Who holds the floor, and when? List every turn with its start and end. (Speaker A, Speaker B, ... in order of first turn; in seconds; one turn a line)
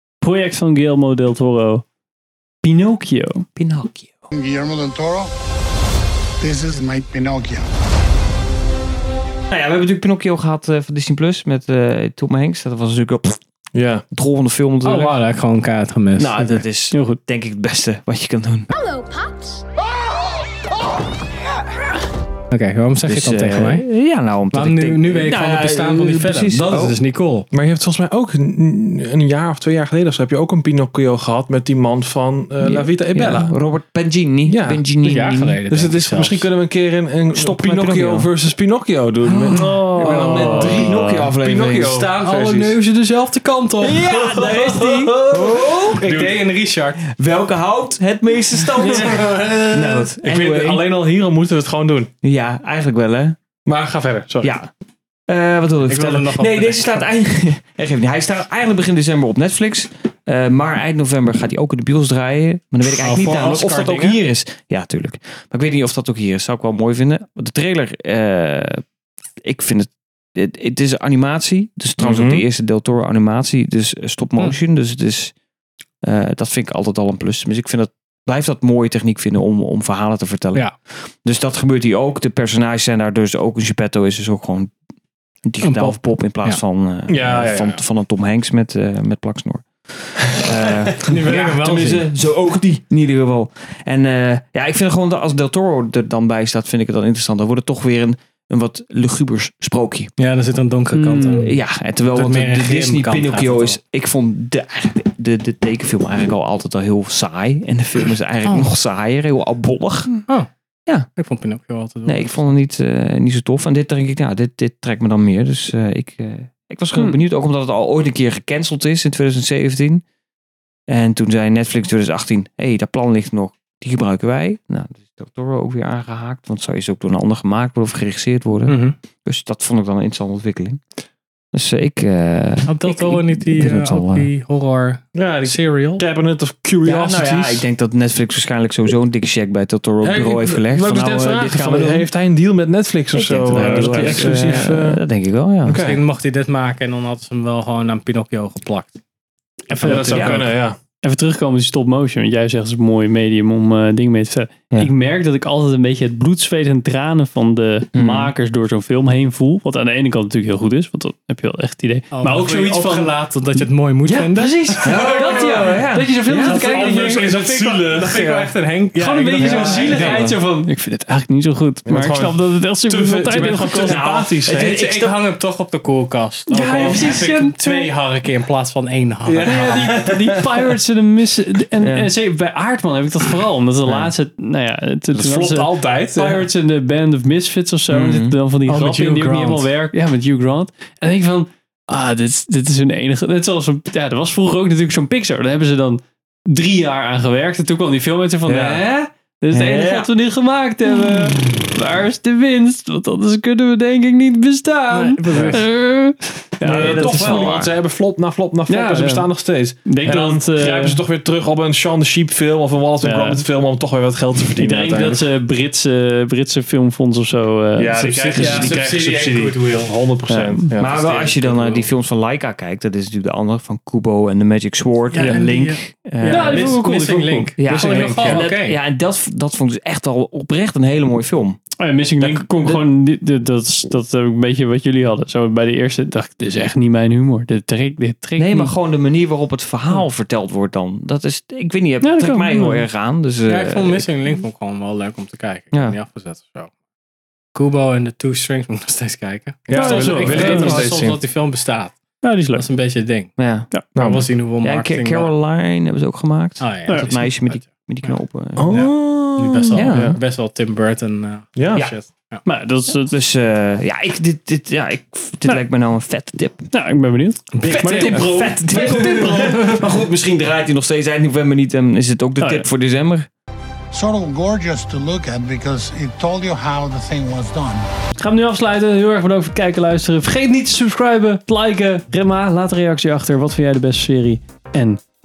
Speaker A: 0.2-1.8
Speaker A: 2.6-3.5
Speaker B: 3.5-4.2
Speaker C: 4.3-5.3
Speaker C: 6.4-7.7
Speaker B: 9.5-13.4
Speaker D: 13.7-14.0
Speaker B: 14.1-15.2
Speaker E: 14.8-16.6
Speaker B: 16.1-18.7
Speaker A: 16.9-17.2
Speaker E: 22.5-23.9
Speaker B: 23.1-27.0
Speaker E: 24.5-27.5
Speaker D: 27.5-33.5
Speaker B: 32.6-35.6
Speaker D: 34.5-34.8
Speaker E: 35.0-36.5
Speaker D: 35.7-42.7
Speaker B: 37.3-38.3
Speaker B: 39.2-41.9
Speaker A: 39.6-41.3
Speaker E: 39.7-40.9
Speaker E: 41.7-47.0
Speaker A: 43.8-45.1
Speaker D: 45.3-46.4
Speaker B: 45.5-46.0
Speaker B: 47.1-49.2
Speaker E: 48.6-50.0
Speaker D: 48.8-52.1
Speaker B: 49.7-50.8
Speaker B: 52.2-53.4
Speaker D: 53.6-54.5
Speaker B: 54.4-54.7
Speaker B: 55.3-68.8
Speaker E: 55.8-57.0
Speaker E: 62.8-64.2
Speaker B: 69.4-75.3
Speaker D: 72.0-72.4
Speaker B: 76.0-84.7
Speaker B: 85.4-100.1
Speaker E: 85.6-86.6
Speaker D: 87.1-87.8
Speaker E: 90.5-92.0
Speaker E: 100.2-103.8
Speaker A: 100.9-101.5
Speaker B: 101.4-110.1
Speaker E: 108.4-108.7
Speaker E: 111.2-112.5
Speaker B: 112.0-120.0
Speaker B: 120.9-130.8
Speaker E: 128.7-128.9
Speaker B: 131.5-134.3
Speaker E: 132.7-136.0
Speaker D: 135.1-137.7
Speaker B: 136.8-142.1
Speaker D: 140.0-145.0
Speaker B: 143.2-145.8
Speaker A: 143.5-144.4
Speaker E: 143.6-144.6
Speaker D: 145.6-146.0
Speaker E: 145.7-148.9
Speaker A: 149.7-163.1
Speaker E: 149.8-150.4
Speaker D: 149.8-150.8
Speaker B: 150.1-150.3
Speaker B: 157.9-158.3
Speaker E: 162.1-170.4
Speaker B: 164.2-166.6
Speaker A: 164.7-167.3
Speaker D: 164.8-165.3
Speaker D: 166.6-168.5
Speaker A: 168.9-174.1
Speaker D: 169.4-170.2
Speaker D: 171.8-174.8
Speaker B: 173.9-174.9
Speaker E: 174.4-179.9
Speaker A: 176.5-177.9
Speaker D: 176.5-177.1
Speaker D: 179.2-180.6
Speaker A: 179.4-207.7
Speaker B: 181.8-182.1
Speaker D: 185.1-186.5
Speaker B: 187.9-188.3
Speaker E: 188.7-189.7
Speaker D: 198.4-198.8
Speaker B: 199.5-200.1
Speaker B: 201.2-201.7
Speaker E: 204.9-205.7
Speaker D: 205.3-205.6
Speaker D: 206.6-215.3
Speaker B: 206.7-207.5
Speaker A: 208.7-209.3
Speaker A: 209.8-211.0
Speaker A: 213.0-213.4
Speaker A: 214.6-218.8
Speaker D: 217.8-221.9
Speaker E: 218.2-219.9
Speaker A: 220.3-220.7
Speaker B: 220.8-226.6
Speaker E: 225.1-228.8
Speaker D: 225.2-225.5
Speaker A: 226.3-228.4
Speaker B: 227.6-231.6
Speaker A: 231.8-238.7
Speaker B: 232.2-232.8
Speaker B: 238.4-244.1
Speaker A: 242.0-242.8
Speaker E: 243.4-246.7
Speaker B: 245.7-246.0
Speaker E: 247.5-255.3
Speaker D: 249.7-251.2
Speaker A: 249.7-250.9
Speaker A: 252.2-252.6
Speaker B: 253.4-253.7
Speaker D: 253.9-254.3
Speaker B: 254.6-258.6
Speaker E: 256.6-262.4
Speaker A: 256.9-257.1
Speaker D: 258.6-260.2
Speaker B: 259.8-260.1
Speaker D: 261.5-261.9
Speaker A: 262.4-263.1
Speaker B: 263.0-266.7
Speaker A: 266.7-269.6
Speaker E: 267.5-269.8
Speaker B: 267.6-273.3
Speaker A: 272.4-272.7
Speaker C: 273.9-277.9
Speaker A: 278.2-285.0